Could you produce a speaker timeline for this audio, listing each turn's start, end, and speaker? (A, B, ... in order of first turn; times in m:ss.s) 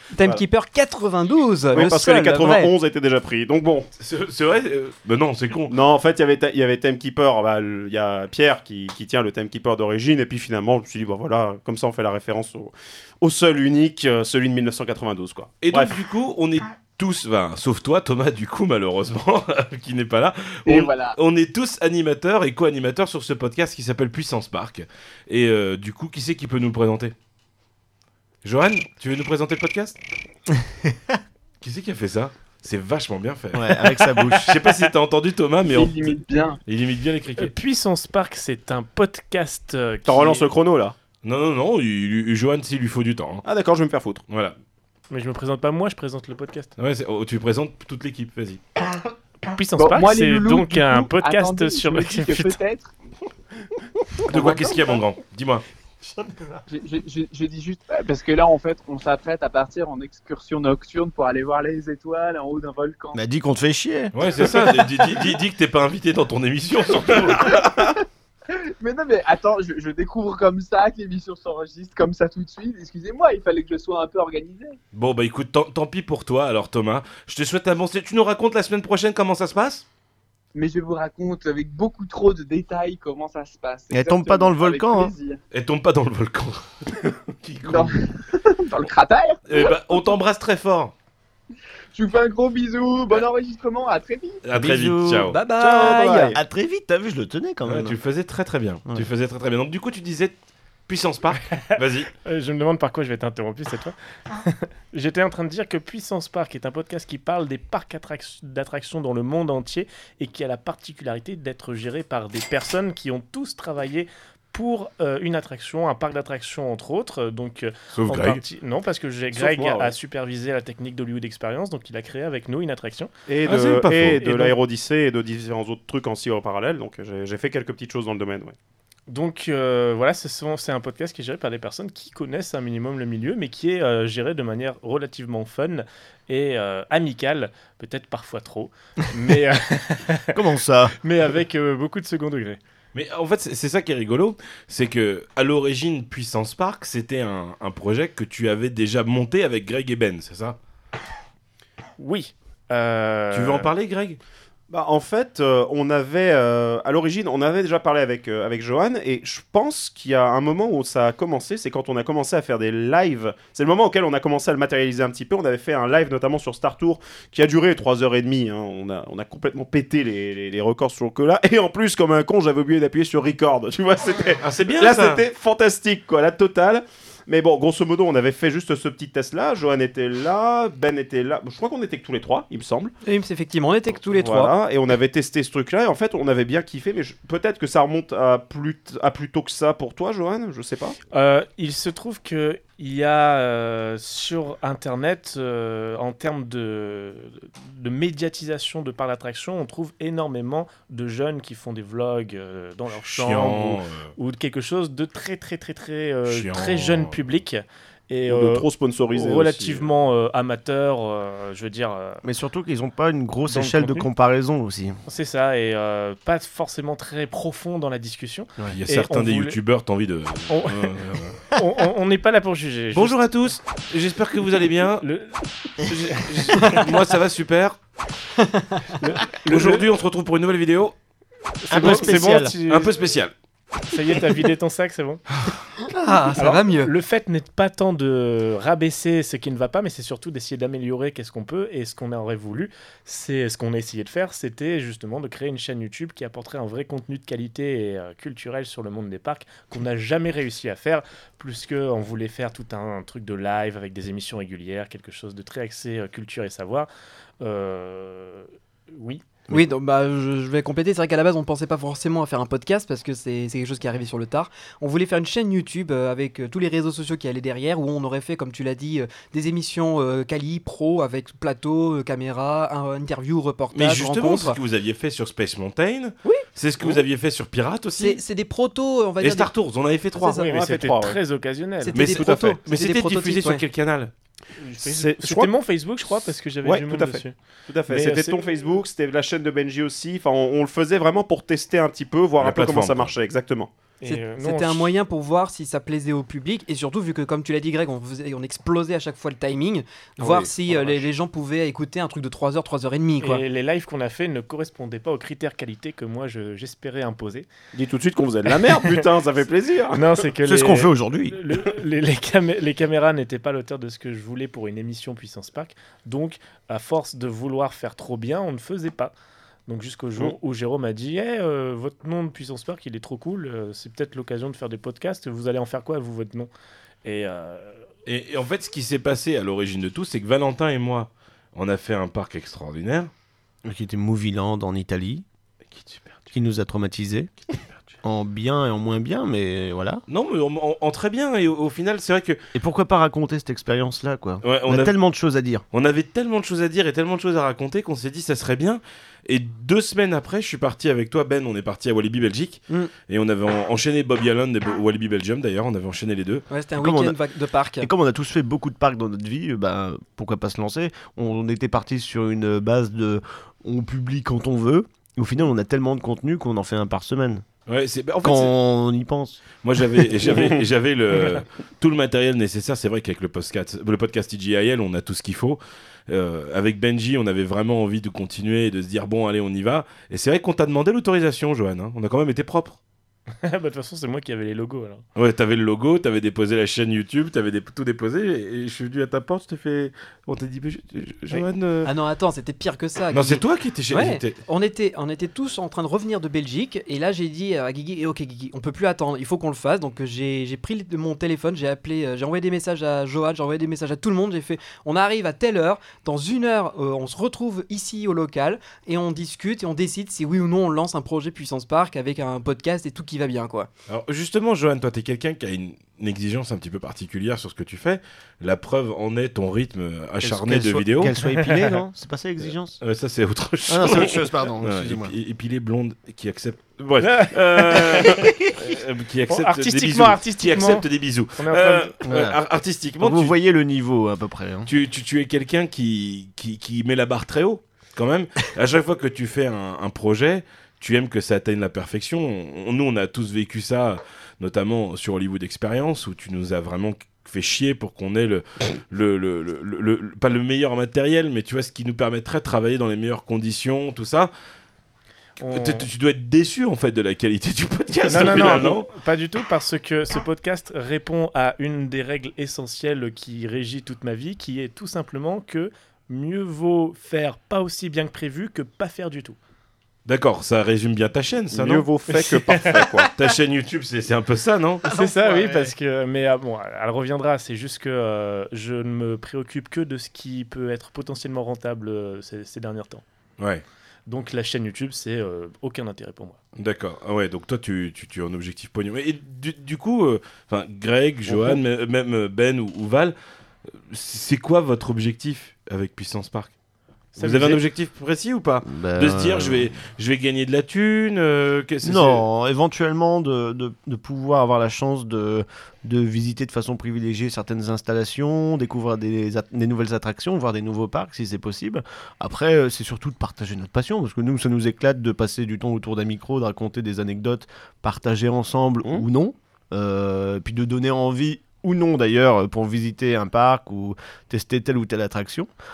0:00.1-0:02.7 A
0:01.7-0:03.9 B
0:04.0-0:05.7 C
0:05.7-0:15.9 B
0:15.6-0:27.1 C
0:20.7-0:21.2 D
0:28.4-0:30.0 C
0:31.6-0:37.5 C
0:33.5-0:34.8 E
0:35.6-0:36.6 D
0:37.4-0:40.5 F
0:40.1-0:41.0 B
0:41.2-0:43.4 C
0:43.4-0:44.2 B
0:44.3-0:44.6 C
0:45.1-0:46.7 F
0:46.8-0:48.6 C
0:49.5-0:52.6 F
0:49.8-0:52.9 D
0:54.2-0:55.6 C
0:54.3-0:55.0 D
0:56.7-1:03.2 D
1:03.1-1:04.2 E
1:04.1-1:07.7 C
1:07.4-1:08.0 D
1:08.5-1:14.8 D
1:14.9-1:19.8 C
1:20.6-1:25.4 D
1:23.9-1:25.1 E
1:25.5-1:27.9 C
1:27.6-1:29.8 D
1:29.5-1:30.9 C
1:31.9-1:34.4 D
1:34.4-1:35.4 C
1:34.5-1:35.4 E
1:35.3-1:36.4 A
1:35.6-1:36.4 B
1:36.3-1:38.0 E
1:37.7-1:40.4 C
1:40.9-1:42.1 C
1:41.5-2:03.1 F
1:58.0-1:58.4 C
1:59.3-1:59.9 B
2:03.3-2:08.6 B
2:03.4-2:04.2 C
2:04.2-2:04.6 F
2:09.1-2:20.4 F
2:20.3-2:21.0 E
2:21.0-2:22.6 F
2:22.9-2:30.6 C
2:32.0-2:33.7 F
2:33.3-2:34.2 C
2:34.7-3:02.9 B
2:54.4-2:55.2 C
3:03.0-3:04.5 A
3:04.1-3:11.0 B
3:11.1-3:32.2 F
3:23.0-3:24.1 C
3:26.2-3:27.2 C
3:28.3-3:29.9 B
3:32.2-3:35.0 E
3:33.5-3:34.1 F
3:35.1-3:39.6 F
3:38.7-3:41.4 C
3:40.5-3:43.6 F
3:42.9-3:45.1 C
3:45.0-3:46.9 F
3:45.9-3:47.8 C
3:48.4-3:49.0 A
3:49.0-3:49.9 F
3:49.4-3:51.0 C
3:51.6-3:53.0 F
3:51.7-3:52.6 E
3:51.8-3:53.3 C
3:53.9-3:55.2 F
3:55.8-3:56.9 A
3:56.4-4:16.9 F
4:17.4-4:19.2 F
4:19.5-4:34.6 A
4:33.7-4:38.2 C
4:38.0-4:39.5 A
4:39.2-4:40.4 C
4:40.2-4:40.6 A
4:40.4-4:42.3 F
4:40.5-4:41.2 B
4:41.8-4:43.6 A
4:41.9-4:44.1 C
4:44.6-4:47.4 F
4:44.8-4:45.5 B
4:46.6-4:53.7 B
4:47.9-4:48.4 F
4:52.4-4:53.1 C
4:54.0-4:55.0 F
4:54.0-5:03.4 A
5:00.2-5:01.1 B
5:03.2-5:07.5 F
5:07.7-5:10.1 B
5:08.6-5:09.0 F
5:09.9-5:19.1 F
5:10.4-5:11.4 E
5:19.7-5:26.5 F
5:27.0-5:27.8 F
5:28.1-5:33.1 C
5:33.6-5:35.2 E
5:35.7-5:36.3 C
5:36.3-5:37.3 E
5:37.5-5:38.0 C
5:38.0-5:40.0 E
5:40.1-5:42.4 C
5:42.6-5:45.6 E
5:44.4-5:45.0 C
5:45.7-5:56.5 C
5:56.5-5:57.9 A
5:56.8-5:57.2 E
5:57.8-6:07.4 E
6:07.7-6:08.6 C
6:08.2-6:09.4 E
6:09.6-6:22.8 C
6:23.4-6:25.0 F
6:25.2-6:31.9 C
6:31.3-6:53.7 A
6:33.1-6:34.4 C
6:53.9-7:01.2 C
7:00.2-7:02.8 E
7:01.4-7:01.7 F
7:02.8-7:13.4 C
7:03.7-7:05.1 E
7:07.0-7:08.5 F
7:09.3-7:10.9 F
7:11.4-7:12.0 F
7:12.1-7:12.4 E
7:13.0-7:14.7 E
7:14.7-7:34.3 C
7:35.4-7:35.9 F
7:35.4-7:38.9 C
7:38.0-7:49.4 F
7:50.1-7:51.9 C
7:51.5-7:53.1 B
7:52.1-7:52.9 F
7:53.1-7:54.9 C
7:54.8-8:03.0 F
7:54.9-7:55.7 E
8:03.4-8:03.6 C
8:04.1-8:06.4 F
8:06.6-8:13.2 C
8:11.3-8:11.6 B
8:13.9-8:16.5 C
8:17.2-8:17.6 F
8:17.2-8:22.2 C
8:18.7-8:19.7 E
8:21.8-8:45.5 E